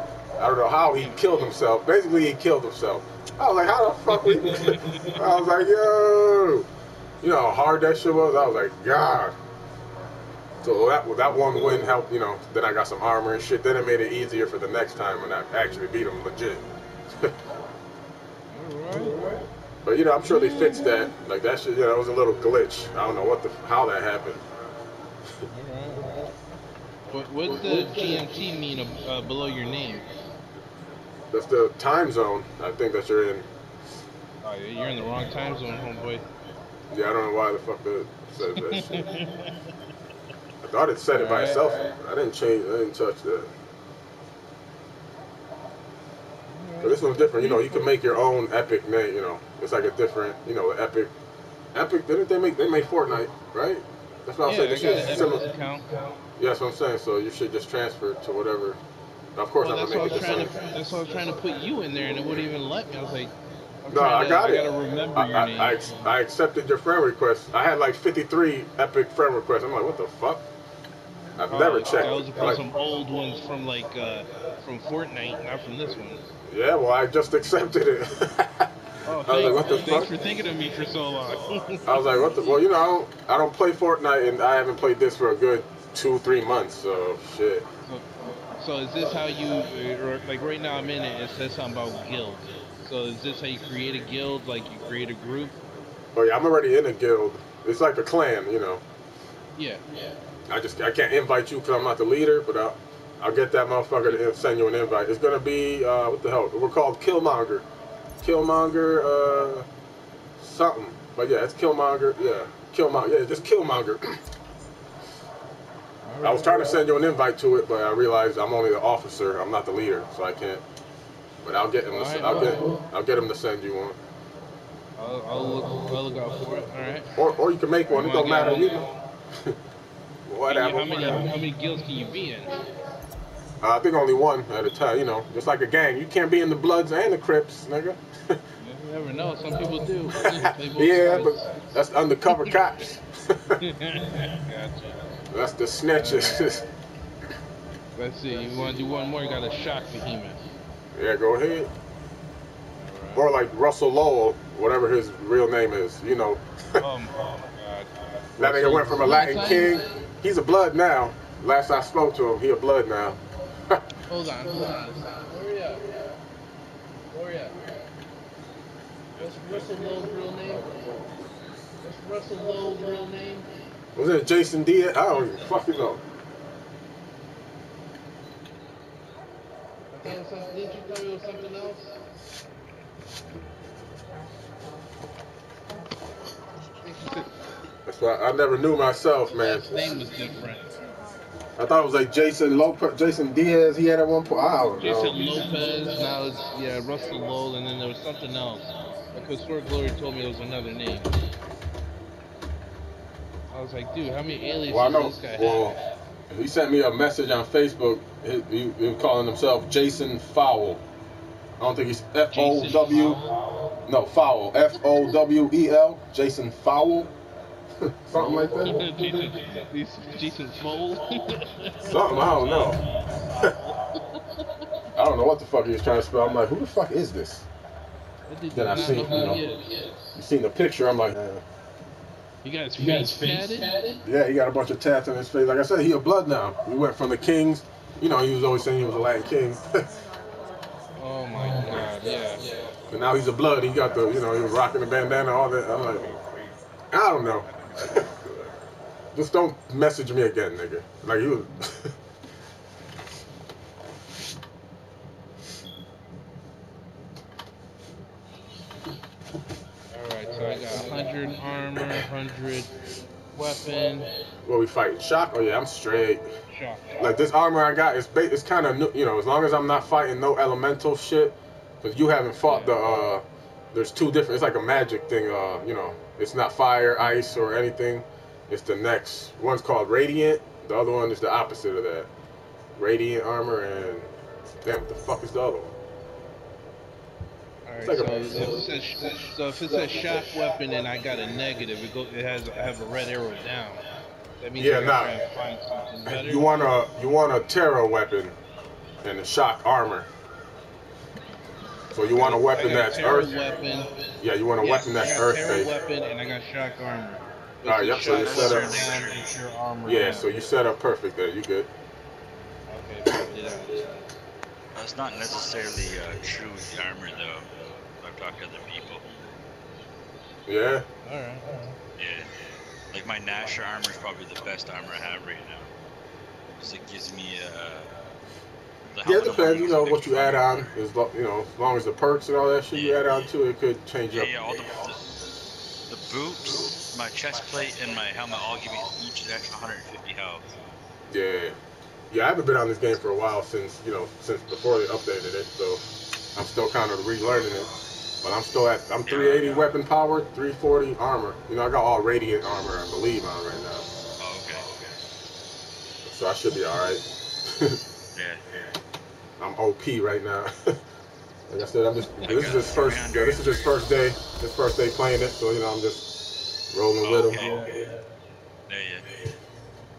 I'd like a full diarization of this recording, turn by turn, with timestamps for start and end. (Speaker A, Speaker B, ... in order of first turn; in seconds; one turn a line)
Speaker A: 0.4-6.7
Speaker B: 4.3-5.2
Speaker A: 7.2-9.3
Speaker A: 10.6-16.6
Speaker B: 18.5-19.4
Speaker A: 19.8-24.4
Speaker B: 20.3-21.1
Speaker B: 25.5-26.2
Speaker B: 27.1-30.1
Speaker A: 31.3-33.5
Speaker B: 34.4-36.2
Speaker A: 36.9-39.1
Speaker B: 38.4-39.7
Speaker A: 40.6-43.5
Speaker B: 41.1-41.7
Speaker B: 46.5-48.0
Speaker A: 46.8-51.1
Speaker A: 51.7-55.5
Speaker B: 54.4-56.0
Speaker A: 56.4-58.8
Speaker A: 59.4-60.6
Speaker B: 59.6-63.3
Speaker B: 63.8-65.9
Speaker A: 63.9-70.4
Speaker A: 71.4-72.6
Speaker B: 71.5-76.3
Speaker A: 76.5-78.7
Speaker B: 79.0-82.4
Speaker A: 79.2-80.1
Speaker A: 81.8-87.7
Speaker B: 87.8-95.6
Speaker A: 96.1-98.8
Speaker B: 99.5-99.8
Speaker A: 100.5-107.7
Speaker A: 108.2-109.7
Speaker A: 110.4-114.2
Speaker B: 116.0-116.8
Speaker A: 116.2-120.6
Speaker A: 121.4-124.0
Speaker B: 121.9-122.7
Speaker B: 125.0-127.1
Speaker A: 127.2-128.9
Speaker B: 127.8-129.0
Speaker A: 130.2-131.3
Speaker B: 130.5-132.7
Speaker A: 133.6-138.4
Speaker B: 138.6-141.7
Speaker A: 140.2-143.6
Speaker B: 142.3-142.6
Speaker B: 143.6-145.2
Speaker A: 145.3-146.7
Speaker B: 145.9-146.5
Speaker B: 147.9-150.4
Speaker A: 150.9-151.7
Speaker B: 152.8-153.3
Speaker A: 153.1-156.8
Speaker B: 156.8-159.8
Speaker A: 158.4-163.8
Speaker B: 164.1-165.9
Speaker B: 167.1-167.7
Speaker B: 169.2-171.0
Speaker B: 171.8-173.6
Speaker A: 173.9-176.0
Speaker B: 179.9-182.0
Speaker B: 186.8-187.3
Speaker A: 187.8-189.7
Speaker B: 189.3-190.7
Speaker A: 191.6-195.1
Speaker B: 194.8-201.2
Speaker B: 203.5-205.8
Speaker A: 204.7-205.8
Speaker A: 206.3-210.8
Speaker A: 211.6-213.2
Speaker B: 212.3-213.3
Speaker A: 213.8-217.1
Speaker A: 217.8-218.9
Speaker B: 218.1-224.7
Speaker A: 221.8-222.8
Speaker A: 224.9-227.5
Speaker B: 228.3-230.2
Speaker A: 228.5-229.4
Speaker A: 230.1-231.4
Speaker B: 232.4-234.0
Speaker A: 234.0-239.8
Speaker B: 240.9-242.5
Speaker A: 242.9-246.1
Speaker A: 246.9-248.2
Speaker A: 249.1-251.9
Speaker B: 259.9-262.8
Speaker B: 263.3-264.1
Speaker A: 264.4-266.3
Speaker B: 266.5-267.2
Speaker A: 267.0-282.1
Speaker B: 272.4-272.9
Speaker A: 282.8-284.1
Speaker A: 284.6-285.8
Speaker B: 287.6-293.9
Speaker A: 287.8-288.5
Speaker B: 294.4-296.8
Speaker A: 294.6-295.2
Speaker A: 296.1-298.4
Speaker A: 299.0-300.1
Speaker A: 301.9-303.3
Speaker B: 302.1-310.4
Speaker A: 304.2-305.7
Speaker A: 307.6-308.8
Speaker C: 308.0-309.2
Speaker A: 309.9-311.7
Speaker B: 312.7-314.1
Speaker C: 314.7-319.1
Speaker A: 320.5-320.9
Speaker B: 321.0-321.8
Speaker C: 322.0-325.7
Speaker C: 326.6-328.0
Speaker C: 328.9-330.7
Speaker A: 329.0-334.3
Speaker C: 332.7-333.2
Speaker C: 334.1-335.0
Speaker C: 335.9-340.4
Speaker A: 341.1-341.6
Speaker A: 342.1-345.8
Speaker A: 346.3-347.7
Speaker A: 348.2-353.9
Speaker C: 349.1-349.7
Speaker C: 354.2-354.8
Speaker A: 356.0-357.8
Speaker C: 358.1-358.7
Speaker A: 359.4-360.8
Speaker A: 361.5-366.1
Speaker C: 362.2-363.9
Speaker A: 366.7-367.6
Speaker C: 367.0-368.0
Speaker B: 367.4-367.8
Speaker C: 368.7-369.4